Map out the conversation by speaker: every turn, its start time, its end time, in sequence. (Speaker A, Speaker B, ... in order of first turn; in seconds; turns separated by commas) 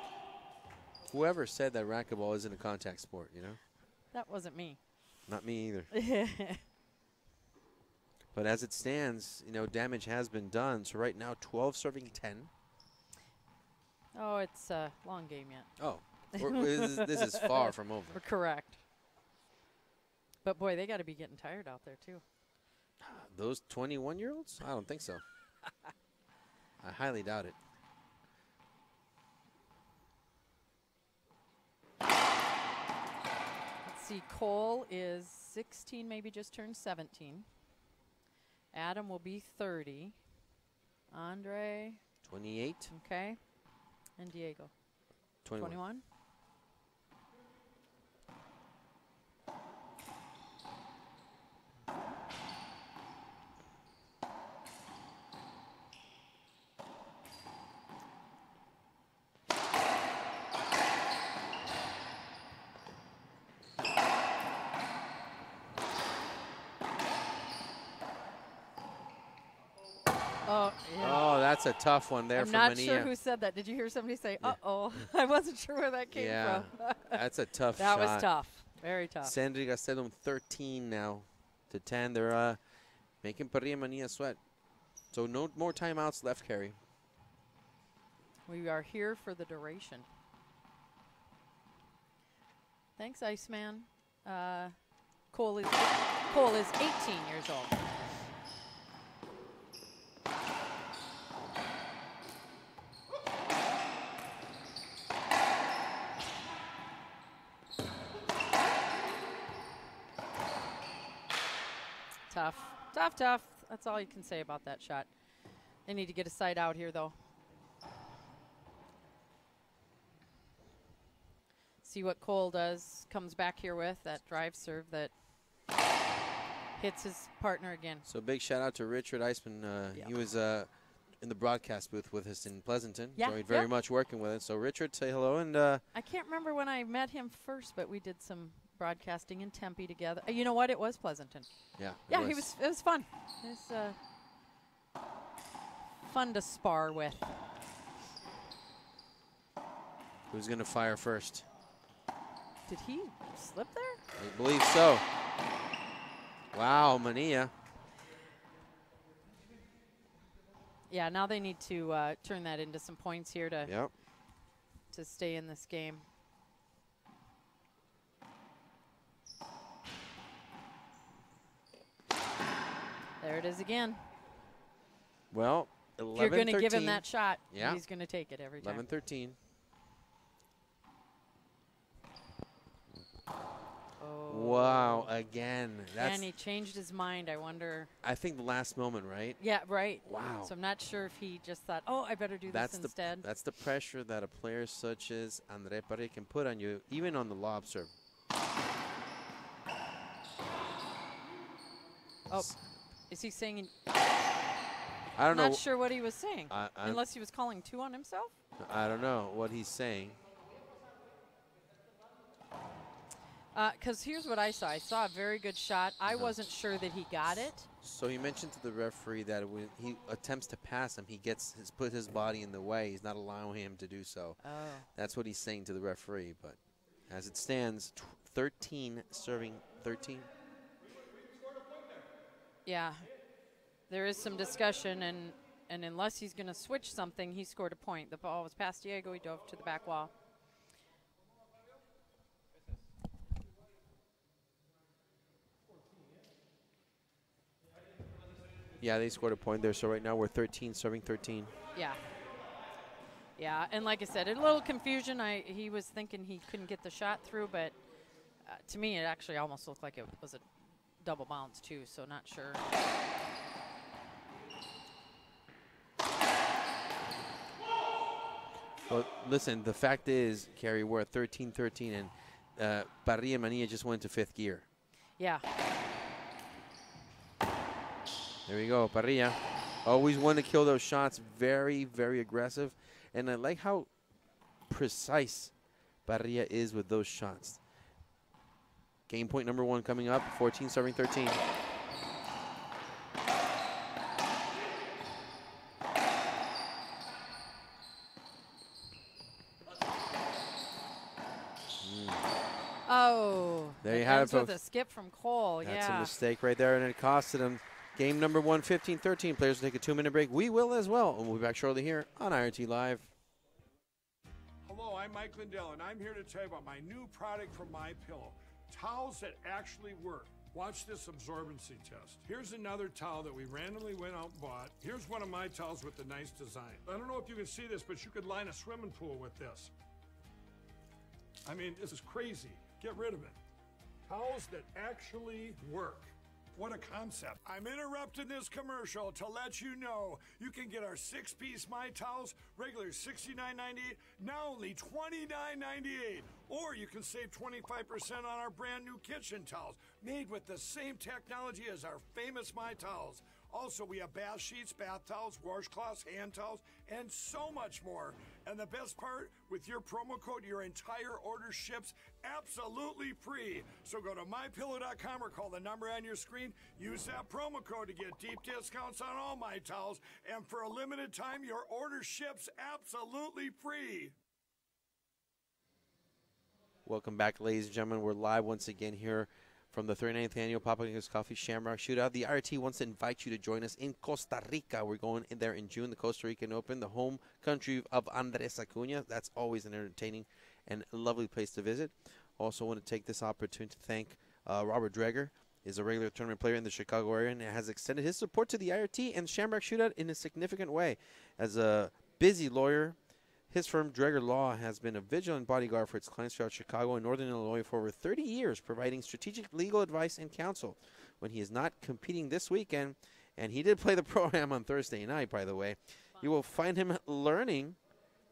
Speaker A: 1.1-3.6, Speaker B: 4.1-4.8, Speaker A: 5.3-5.9, Speaker B: 5.9-6.6, Speaker A: 8.3-12.5, Speaker B: 14.1-15.7, Speaker A: 15.8-18.2, Speaker B: 16.3-18.8, Speaker B: 20.4-22.2, Speaker A: 23.0-25.2, Speaker A: 26.8-27.6, Speaker B: 33.8-37.5, Speaker B: 38.7-40.2, Speaker B: 41.1-42.0, Speaker A: 42.2-42.9, Speaker B: 42.9-43.4, Speaker B: 44.2-44.7, Speaker A: 45.4-45.8, Speaker B: 45.5-46.0, Speaker B: 70.5-71.2, Speaker A: 71.0-73.1, Speaker B: 72.3-77.2, Speaker A: 76.1-78.3, Speaker B: 77.8-79.3, Speaker A: 79.2-82.6, Speaker A: 83.2-84.4, Speaker A: 85.1-86.8, Speaker B: 88.5-90.0, Speaker B: 93.0-94.7, Speaker B: 95.3-97.8, Speaker B: 112.3-115.1, Speaker B: 115.8-117.1, Speaker B: 121.8-125.1, Speaker B: 126.8-128.0, Speaker A: 128.1-130.7, Speaker A: 131.2-135.8, Speaker B: 133.2-133.7, Speaker B: 135.9-141.5, Speaker A: 141.8-142.5, Speaker B: 142.1-144.0, Speaker B: 146.0-147.4, Speaker A: 150.3-151.4, Speaker B: 152.7-154.0, Speaker A: 154.2-155.0, Speaker A: 156.5-157.5, Speaker B: 160.9-163.7, Speaker A: 163.7-163.9, Speaker B: 164.9-166.1, Speaker B: 173.2-174.1, Speaker A: 175.3-177.8, Speaker B: 176.1-178.8, Speaker A: 178.6-179.3, Speaker B: 184.0-185.1, Speaker A: 184.3-186.2, Speaker B: 186.0-187.9, Speaker A: 188.0-189.4, Speaker B: 189.4-193.3, Speaker A: 190.0-190.5, Speaker A: 192.5-197.9, Speaker B: 202.3-202.6, Speaker B: 203.1-203.7, Speaker A: 205.2-205.6, Speaker B: 205.3-208.3, Speaker A: 206.5-207.0, Speaker A: 208.6-210.2, Speaker B: 213.5-217.7, Speaker A: 216.1-216.3, Speaker A: 217.8-224.4, Speaker B: 224.4-224.9, Speaker A: 224.9-226.6, Speaker A: 227.1-230.3, Speaker B: 232.7-233.1, Speaker B: 233.9-240.1, Speaker A: 248.8-251.5, Speaker B: 251.7-252.0, Speaker B: 253.4-257.8, Speaker B: 258.4-260.4, Speaker B: 261.0-262.6, Speaker A: 268.9-274.6, Speaker B: 275.2-275.4, Speaker A: 278.4-283.9, Speaker A: 284.7-285.5, Speaker A: 286.1-287.6, Speaker A: 289.1-291.4, Speaker A: 301.8-302.3, Speaker B: 302.9-306.1, Speaker A: 303.8-304.5, Speaker A: 305.6-313.1, Speaker C: 314.6-329.7, Speaker C: 331.4-333.4, Speaker C: 334.1-374.1, Speaker A: 376.8-402.9, Speaker A: 403.5-417.8